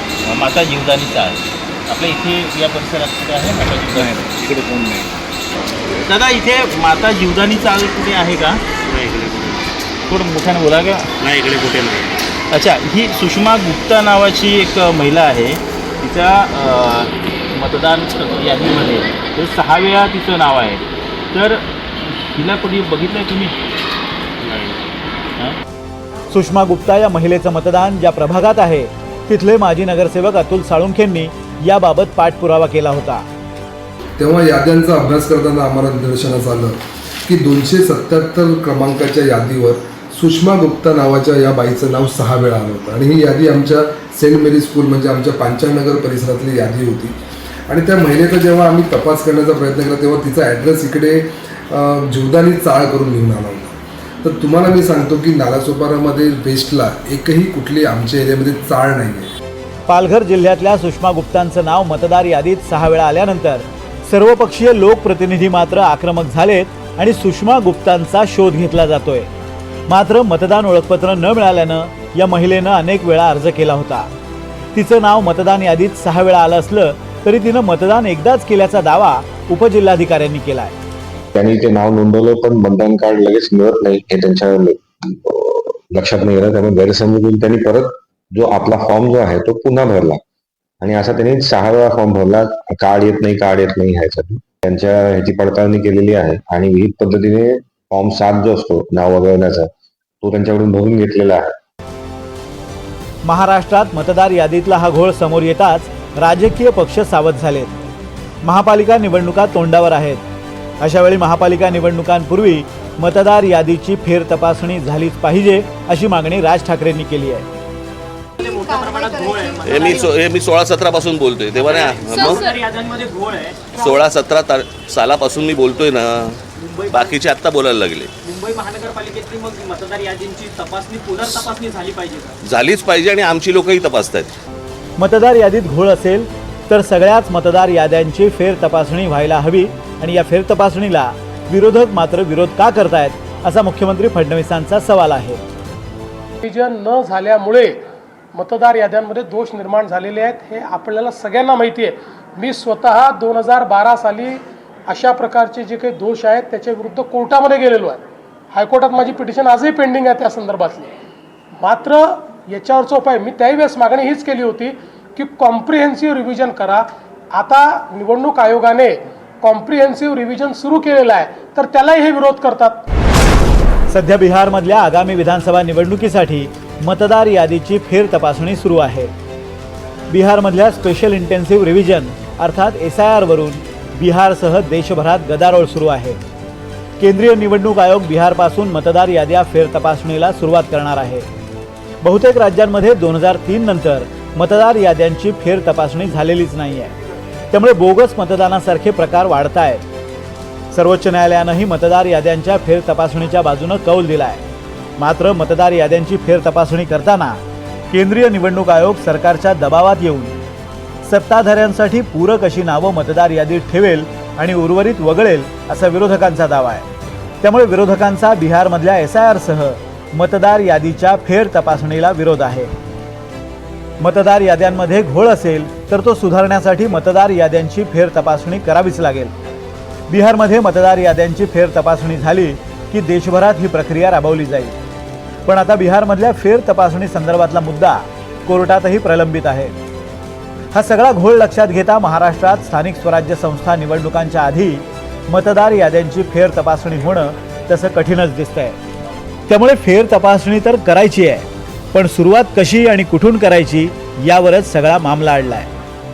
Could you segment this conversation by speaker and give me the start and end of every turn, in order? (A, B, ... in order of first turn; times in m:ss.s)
0:00.2-0:04.4 A
0:04.1-0:05.0 B
0:06.0-0:21.6 A
0:22.3-0:23.5 A
0:24.4-0:24.8 A
0:26.3-0:33.3 B
0:34.2-0:47.1 C
0:47.7-0:59.3 C
0:59.9-1:09.3 B
1:09.9-1:14.1 B
1:14.7-1:20.7 B
1:21.3-1:30.2 D
1:30.8-1:39.7 D
1:40.2-1:41.6 D
1:43.2-1:47.7 B
1:48.4-1:50.2 B
1:50.8-1:57.4 B
1:58.4-2:00.1 E
1:59.7-2:02.4 F
2:01.5-2:03.9 E
2:03.8-2:06.4 F
2:06.6-2:07.2 E
2:06.9-2:08.1 F
2:08.2-2:12.3 E
2:12.4-2:14.3 F
2:15.0-2:25.4 B
2:26.4-2:27.8 G
2:28.3-2:40.9 G
2:41.6-2:52.8 G
2:53.9-2:59.1 B
3:00.1-3:06.2 B
3:07.0-3:11.2 B
3:12.0-3:16.9 B
3:17.5-3:19.8 B
3:20.7-3:24.4 B
3:25.0-3:27.4 B
3:27.9-3:30.3 B
3:31.0-3:36.8 B
3:37.4-3:42.7 B
3:44.0-3:49.3 B
3:50.1-3:54.8 B
3:55.4-3:59.7 B
4:00.7-4:08.8 B
4:09.5-4:15.7 B